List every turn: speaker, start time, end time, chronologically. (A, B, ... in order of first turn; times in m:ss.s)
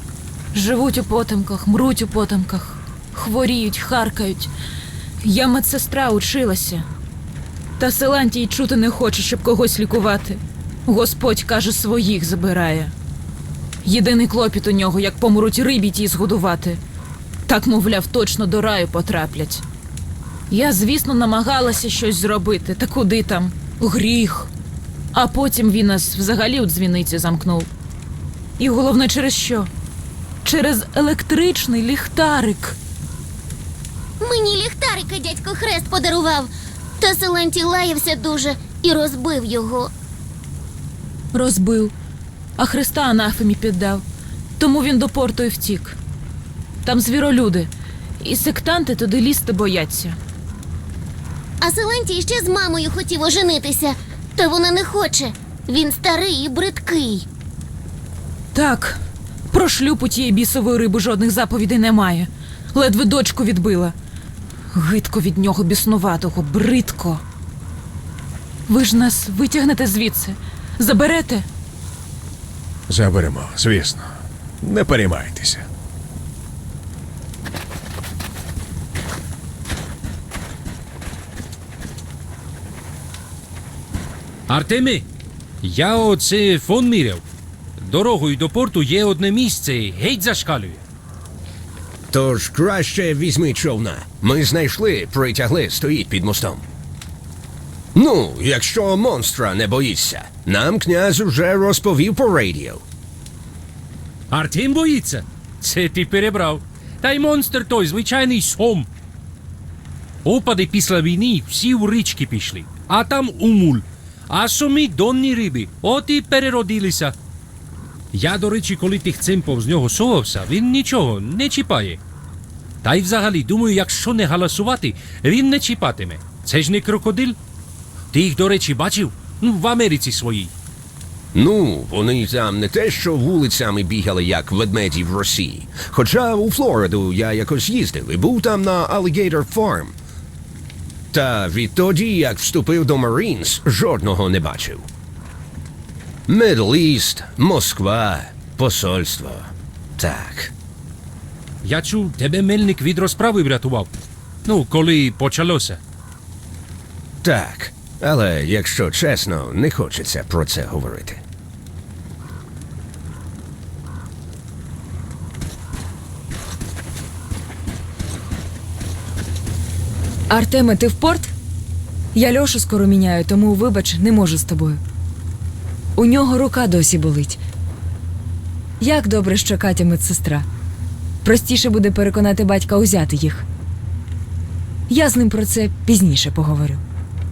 0:00.5-0:04.5 A
0:05.2-0:06.8 A
0:07.8-0:12.9 A
0:13.8-0:16.8 A
0:17.4-0:19.6 A
0:20.5-0:24.5 A
0:25.1-0:27.7 A
0:28.6-0:29.7 A
0:30.4-0:32.8 A
0:34.2-0:39.9 B
0:41.3-0:41.9 A
0:42.6-0:44.0 A
0:44.6-0:46.0 A
0:46.8-0:50.2 A
0:51.6-0:57.2 B
0:58.5-0:59.0 A
0:59.5-1:03.9 A
1:04.7-1:07.2 A
1:08.7-1:11.4 A
1:12.9-1:14.0 C
1:14.6-1:15.7 C
1:24.5-1:25.0 D
1:25.6-1:27.2 D
1:27.8-1:30.8 D
1:32.1-1:36.6 E
1:38.0-1:42.8 E
1:44.3-1:48.9 D
1:50.2-1:57.1 D
1:58.1-2:02.0 D
2:02.8-2:07.4 D
2:08.1-2:10.5 D
2:11.3-2:19.9 E
2:21.1-2:24.8 E
2:26.3-2:29.3 E
2:30.0-2:30.4 E
2:31.6-2:33.9 D
2:34.4-2:35.8 D
2:37.2-2:41.2 E
2:50.3-2:51.3 F
2:52.1-2:54.8 F
2:56.0-2:57.4 F
2:58.8-3:00.4 F
3:01.2-3:03.4 F
3:04.9-3:06.8 F